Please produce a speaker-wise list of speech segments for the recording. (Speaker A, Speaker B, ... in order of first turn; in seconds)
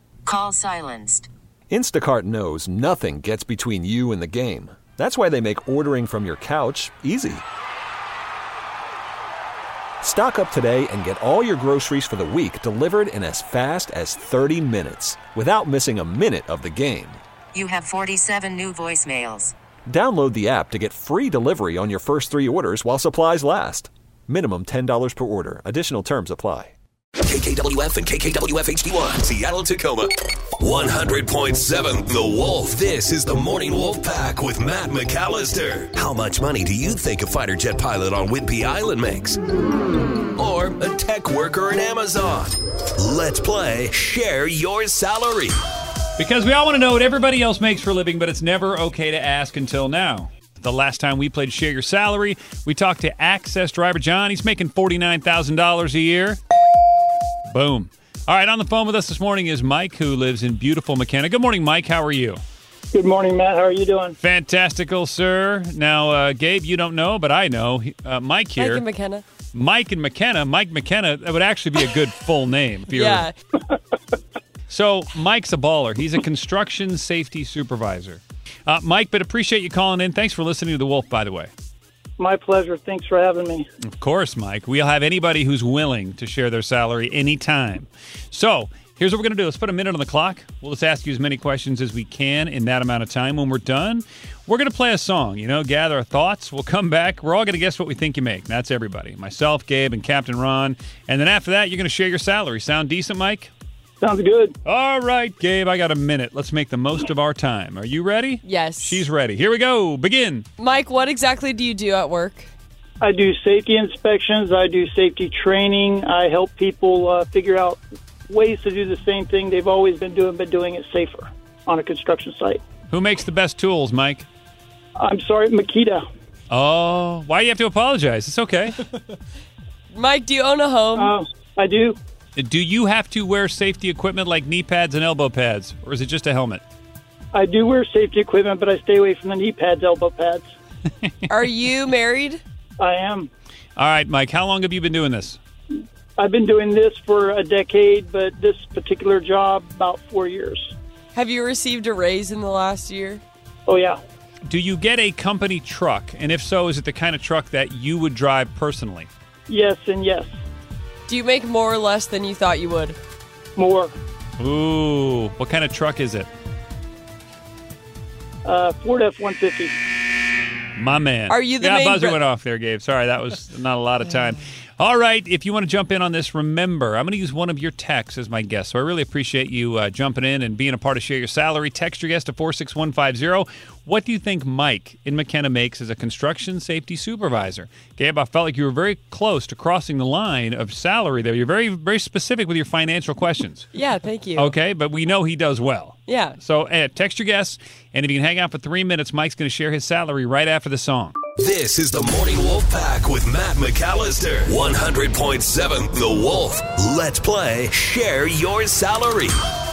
Speaker A: 0.3-1.2, 17.6-19.5
Speaker B: 1.7-7.4, 10.0-17.2, 19.9-26.7
Speaker C: 27.2-39.4, 40.4-45.5, 201.4-209.3
Speaker D: 46.2-56.4, 57.5-62.4, 64.2-68.8, 69.5-73.2, 74.7-81.5, 83.8-103.5, 104.6-110.5, 122.9-124.3, 126.5-128.9, 132.3-136.6, 143.8-145.4, 154.4-159.1, 164.4-166.3, 170.8-193.7, 194.3-201.2
Speaker E: 62.9-64.1, 82.2-83.7, 104.0-104.5, 113.0-122.6, 125.0-126.0, 130.9-132.0, 137.3-140.5, 142.8-143.3, 146.2-150.7, 153.7-154.0, 159.5-160.3, 163.6-163.9, 168.4-169.8
Speaker F: 68.6-69.2, 72.9-73.3, 108.4-109.0, 110.6-112.5, 129.9-131.1, 141.3-142.4, 151.1-153.2, 161.1-163.0, 171.3-172.2, 193.7-194.5, 196.1-196.4